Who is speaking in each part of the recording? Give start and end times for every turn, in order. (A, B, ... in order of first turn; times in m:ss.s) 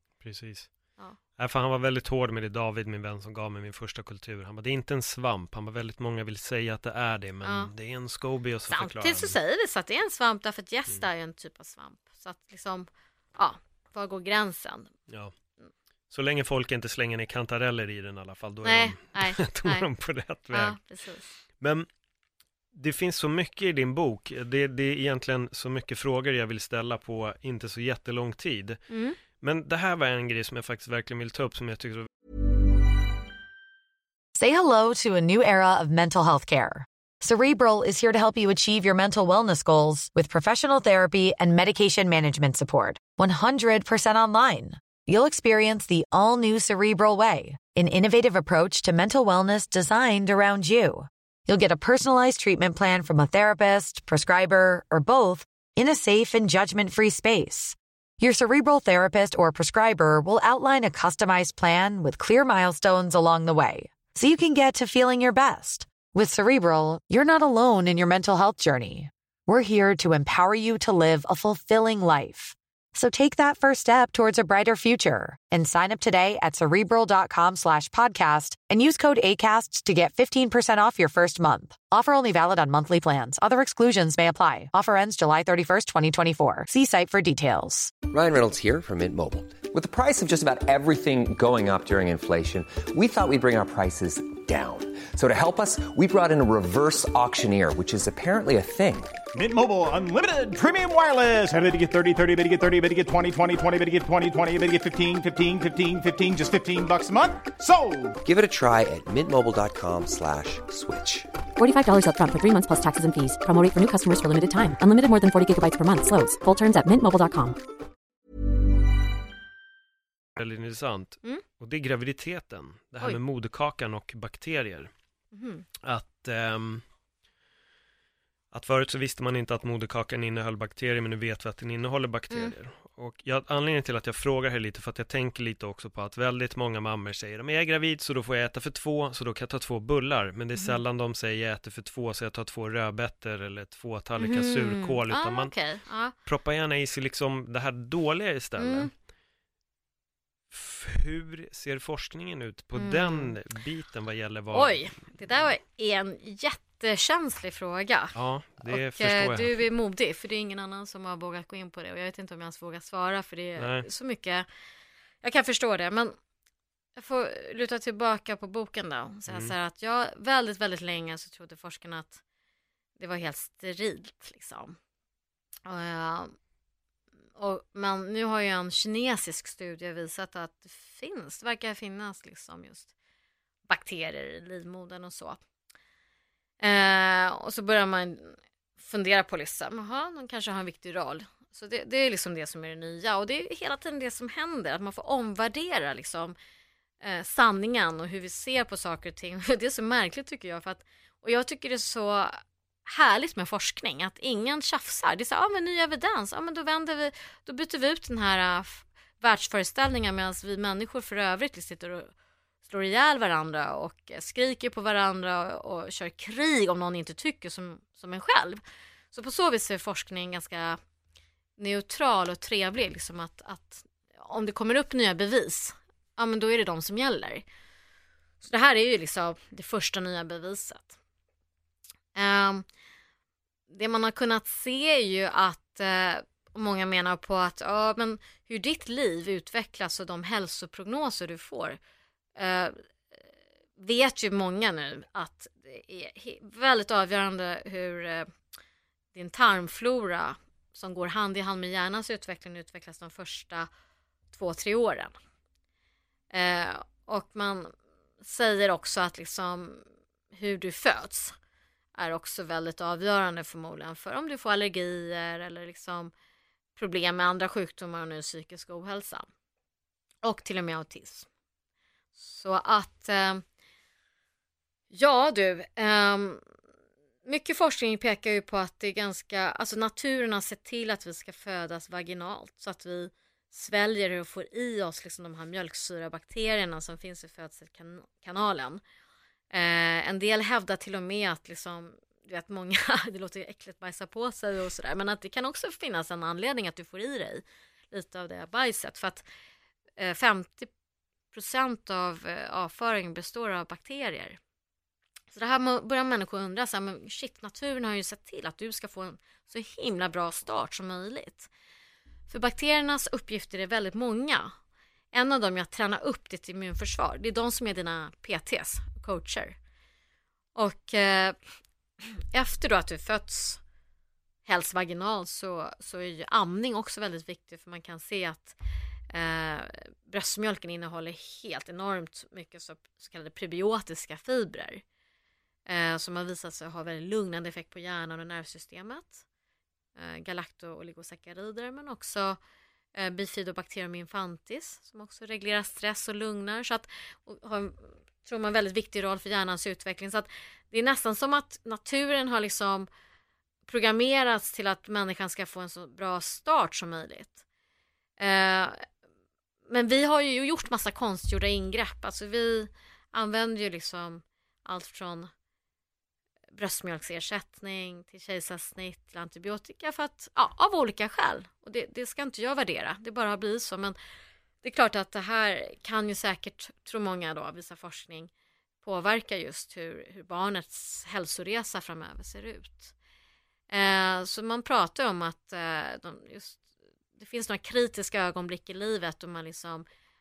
0:00.2-0:00.8 A
0:01.4-0:09.4 A
0:07.4-0:07.7 B
0:08.7-0:14.9 B
0:16.1-0:20.8 A
0:18.6-0:19.9 B
0:20.5-0:21.4 B
0:21.6-0:21.9 A
0:22.7-0:28.8 A
0:28.9-0:29.2 B
0:29.3-0:32.1 A
0:34.3-1:27.9 C
1:28.1-1:39.2 D
1:39.3-1:48.2 E
1:48.2-1:51.3 D
1:51.6-1:57.6 F
2:00.4-2:04.9 A
2:05.3-2:05.6 B
2:05.8-2:06.8 A
2:08.5-2:25.5 A
2:20.6-2:20.8 B
2:24.2-2:26.1 B
2:26.2-2:28.9 A
2:28.6-2:28.9 B
2:30.5-2:34.8 A
2:32.8-2:33.3 B
2:34.5-2:44.4 B
2:38.1-2:39.6 A
2:43.6-2:43.9 A
2:45.2-2:46.2 B
2:47.0-2:52.2 B
2:49.3-2:49.5 A
2:53.0-2:54.8 B
2:55.6-2:56.3 B
2:57.4-3:02.9 B
3:03.7-3:05.4 B
3:06.6-3:16.4 B
3:17.0-3:32.1 B
3:32.6-3:40.8 B
3:41.6-3:47.4 B
3:48.4-3:51.0 B
3:52.1-3:52.6 B
3:53.7-4:01.8 B
4:02.4-4:02.8 B
4:03.8-4:08.3 B
4:09.1-4:13.7 B
4:14.3-4:15.2 B
4:16.3-4:21.3 B
4:22.0-4:26.1 B
4:26.8-4:29.3 B
4:30.2-4:31.3 B
4:32.2-4:33.4 B
4:34.9-4:36.4 B
4:37.2-4:48.8 B
4:49.5-4:59.2 B
5:00.0-5:00.7 B
5:01.3-5:04.4 B
5:05.3-5:11.5 B
5:12.3-5:14.5 B
5:15.1-5:19.6 B
5:20.5-5:21.4 B
5:22.3-5:23.6 B
5:24.4-5:28.6 B
5:29.1-5:34.8 B
5:35.7-5:39.2 B
5:40.0-5:42.4 B
5:42.9-5:52.9 B
5:53.6-5:57.4 B
5:58.2-5:58.8 B
5:59.7-6:05.3 B
6:06.5-6:14.0 B
6:14.6-6:18.3 B
6:18.8-6:22.9 B
6:23.7-6:26.6 B
6:27.2-6:29.8 B